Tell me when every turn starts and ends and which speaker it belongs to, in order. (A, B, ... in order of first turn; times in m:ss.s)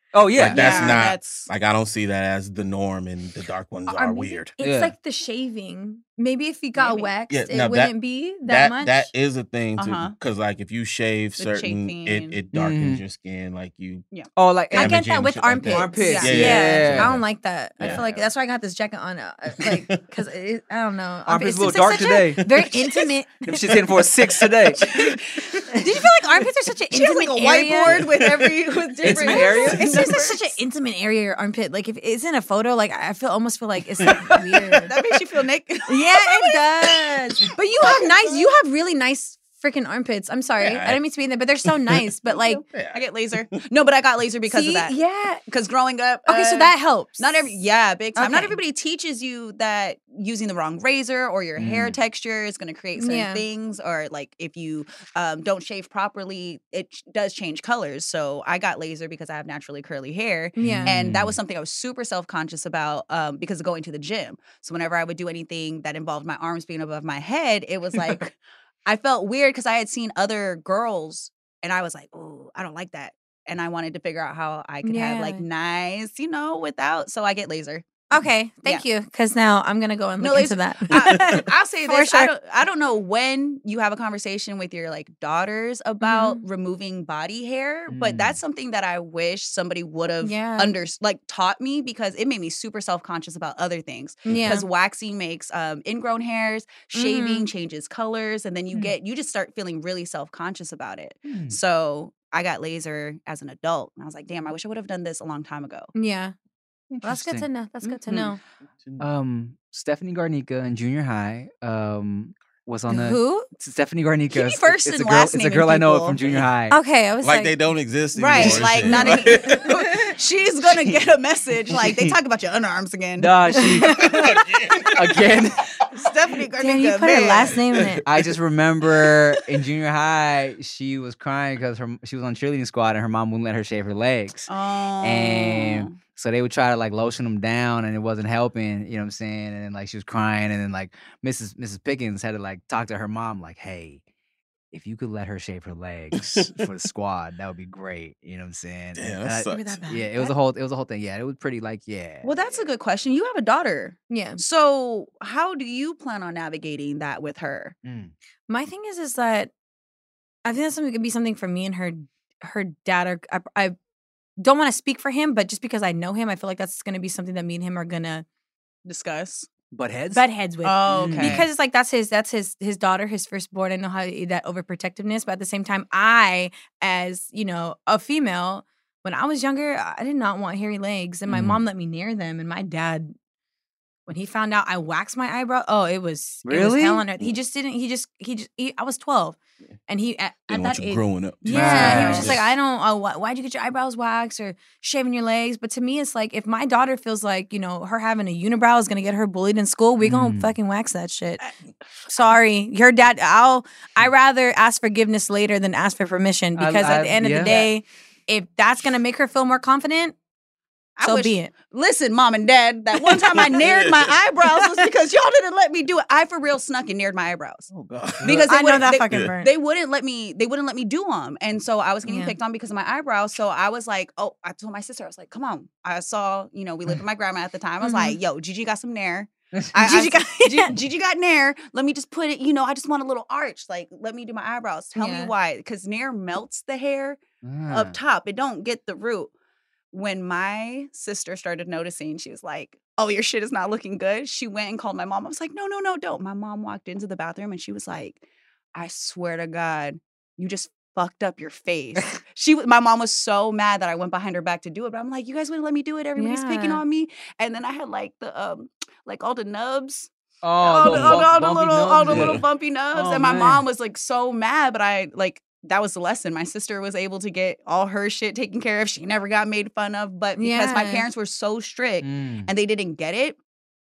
0:00.1-0:00.7 A
0:00.3-0:04.5 B
0:00.5-0:01.5 C
0:00.7-0:01.0 D
0:03.9-0:09.1 D
0:04.6-0:04.9 A
0:06.8-0:07.1 C
0:07.3-0:14.0 B
0:09.8-0:10.2 C
0:11.4-0:12.4 C
0:12.5-0:13.0 A
0:14.4-0:15.0 A
0:14.7-0:17.2 B
0:14.7-0:23.8 D
0:15.7-0:17.2 A
0:16.0-0:16.6 C
0:17.8-0:18.3 A
0:19.6-0:19.9 B
0:21.3-0:22.7 A
0:23.4-0:25.0 A
0:24.9-0:25.6 B
0:25.6-0:28.1 D
0:26.9-0:30.6 C
0:27.9-0:28.7 B
0:29.0-0:30.2 A
0:29.1-0:35.0 D
0:34.0-0:34.3 B
0:34.9-0:37.1 C
0:35.9-0:42.6 D
0:37.8-0:38.4 C
0:40.6-0:41.0 B
0:41.6-0:42.0 B
0:42.3-0:45.0 C
0:42.6-0:43.0 B
0:44.5-0:45.4 D
0:45.5-1:18.1 C
0:46.3-0:47.5 D
0:48.2-0:48.6 D
0:51.6-0:52.0 A
0:53.0-0:53.4 D
1:00.6-1:01.4 A
1:00.6-1:00.9 D
1:14.8-1:15.4 D
1:18.1-1:22.3 D
1:20.2-1:45.9 C
1:26.0-1:26.4 D
1:27.9-1:28.4 A
1:30.2-1:30.7 D
1:34.4-1:34.7 D
1:36.9-1:37.5 D
1:41.3-1:41.6 A
1:46.0-1:46.3 D
1:46.9-1:47.5 A
1:47.0-1:48.4 D
1:47.8-1:48.3 C
1:49.0-1:56.8 A
1:52.9-1:53.5 D
1:54.3-1:56.2 C
1:56.7-1:57.6 D
1:57.2-1:59.8 B
1:58.2-2:03.6 C
1:58.4-1:58.7 A
1:58.8-1:59.8 D
2:01.8-2:02.2 A
2:03.2-2:04.0 A
2:03.8-2:04.4 D
2:03.8-2:05.2 B
2:04.9-2:05.6 A
2:05.9-2:07.6 C
2:06.6-2:08.0 D
2:07.8-2:08.0 B
2:08.1-2:24.0 A
2:14.5-2:16.0 C
2:24.7-2:32.7 A
2:29.0-2:29.8 B
2:29.5-2:30.3 D
2:32.2-2:37.8 C
2:34.1-2:34.4 D
2:37.8-2:38.1 A
2:38.5-2:39.5 D
2:40.4-2:43.8 D
2:44.4-2:48.2 D
2:48.9-2:49.5 C
2:49.7-2:50.2 A
2:50.1-3:03.1 D
2:50.6-2:51.5 C
2:50.9-2:51.5 A
3:01.3-3:01.6 A
3:04.1-3:09.4 D
3:06.4-3:07.0 A
3:09.9-3:21.4 D
3:10.5-3:12.5 B
3:11.4-3:12.4 C
3:11.5-3:12.4 A
3:20.0-3:20.6 A
3:22.1-3:30.2 D
3:26.6-3:27.6 A
3:27.4-3:27.7 C
3:31.0-3:37.7 C
3:31.0-3:31.5 D
3:33.0-3:33.4 D
3:33.4-3:34.2 B
3:34.6-3:34.9 D
3:37.7-3:38.5 B
3:38.2-3:59.3 C
3:38.2-3:39.5 D
3:42.0-3:42.4 D
3:47.8-3:48.2 D
3:49.8-3:50.7 D
3:55.0-3:55.3 D
3:57.4-3:58.0 A
3:59.9-4:08.2 C
4:08.8-4:20.1 C
4:16.2-4:16.8 D
4:20.4-4:23.6 A
4:20.6-4:33.4 C
4:20.9-4:21.2 B
4:22.1-4:22.4 B
4:30.4-4:31.1 D
4:32.0-4:32.5 A